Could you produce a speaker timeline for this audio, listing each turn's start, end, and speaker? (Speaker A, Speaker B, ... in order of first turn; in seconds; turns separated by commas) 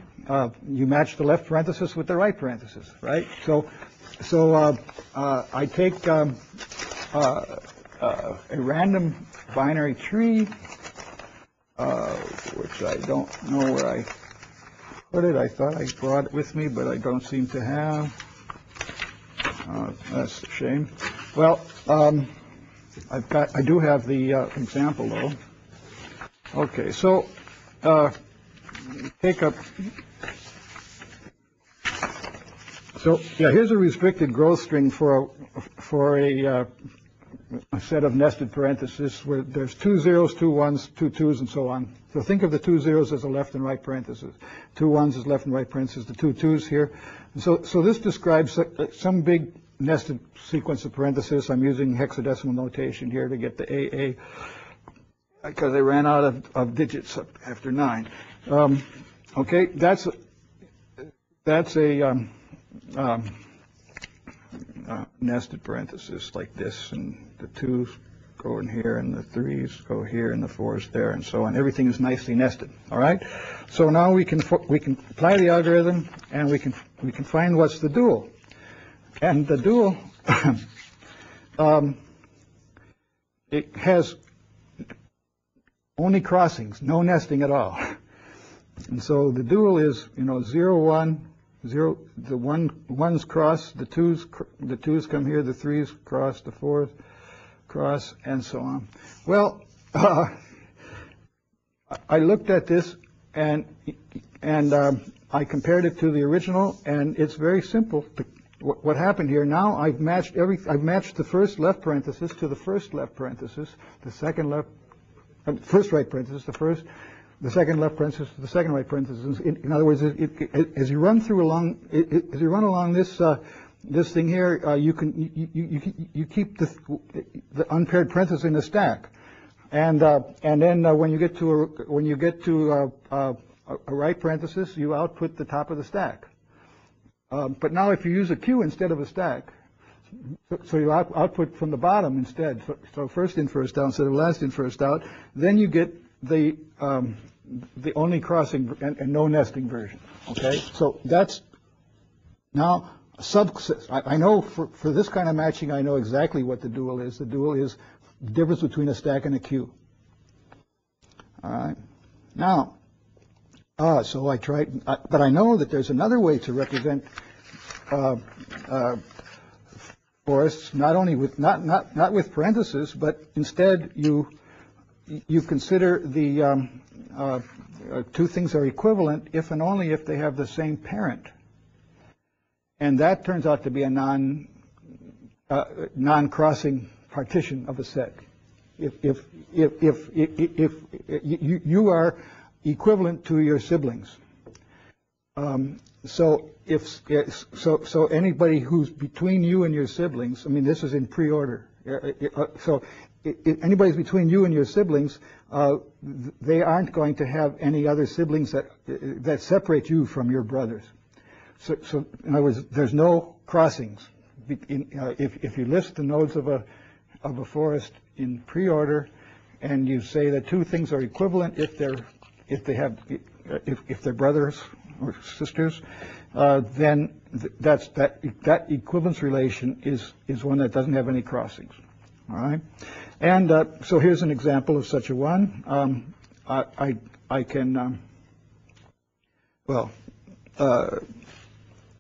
Speaker A: 0.2-10.5, Speaker A: 11.8-14.1, Speaker A: 15.1-18.1, Speaker A: 19.6-22.3, Speaker A: 23.1-25.4, Speaker A: 26.5-28.1, Speaker A: 28.9-29.9, Speaker A: 32.9-36.7, Speaker A: 37.7-54.4, Speaker A: 55.4-60.1, Speaker A: 61.4-62.3, Speaker A: 62.9-63.4, Speaker A: 64.8-78.3, Speaker A: 79.2-80.6, Speaker A: 81.6-82.0, Speaker A: 83.5-84.2, Speaker A: 86.0-88.0, Speaker A: 88.9-96.9, Speaker A: 97.7-100.4, Speaker A: 101.9-114.7, Speaker A: 115.4-116.8, Speaker A: 117.4-129.1, Speaker A: 129.7-136.3, Speaker A: 137.3-139.5, Speaker A: 140.5-151.4, Speaker A: 152.5-159.7, Speaker A: 161.4-161.8, Speaker A: 162.3-162.7, Speaker A: 163.8-167.1, Speaker A: 167.9-169.0, Speaker A: 170.2-174.3, Speaker A: 175.1-181.3, Speaker A: 182.8-184.5, Speaker A: 185.5-188.2, Speaker A: 188.8-194.2, Speaker A: 195.3-210.9, Speaker A: 211.6-216.6, Speaker A: 217.2-219.1, Speaker A: 219.6-231.7, Speaker A: 232.3-232.6, Speaker A: 233.2-238.0, Speaker A: 239.7-239.9, Speaker A: 240.6-241.1